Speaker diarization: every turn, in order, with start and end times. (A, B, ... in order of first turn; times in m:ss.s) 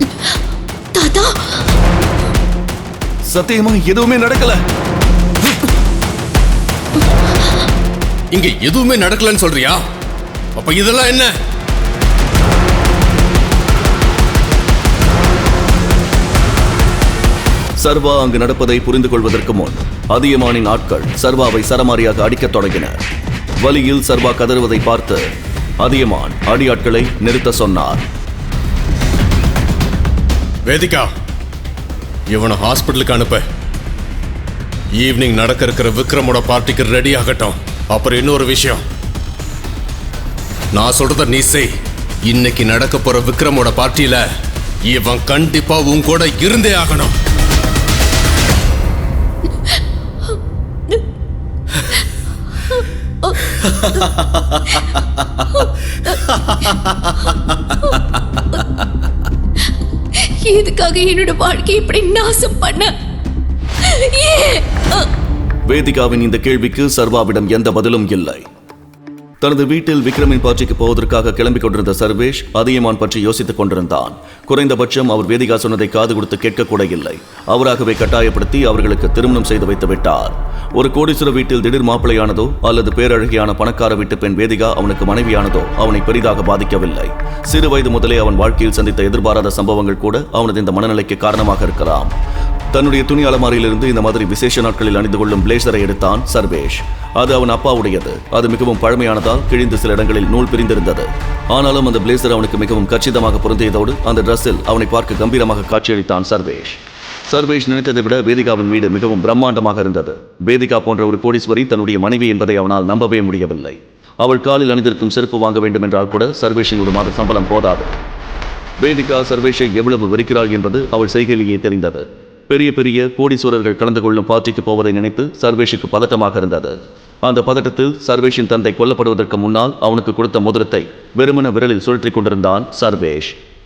0:00.9-0:01.7 A
0:03.3-0:04.6 B
0:08.3-0:09.8 C
0:10.6-0:11.3 C
0:17.8-0:23.0 B
0:23.6-0:25.2 B
0:25.8-0:28.0 B
0:30.7-0:31.1 C
0:32.3-0:33.4 C
0:35.0-0:38.8 C
0:40.7-0:41.7 C
0:42.2-0:44.2 C
0:44.8-0:47.1 C
0:52.7-0:58.1 A
1:00.1-1:02.9 A
1:03.8-1:05.1 A
1:05.7-1:08.4 B
1:09.4-1:32.1 B
1:32.7-1:57.9 B
1:58.8-2:13.4 B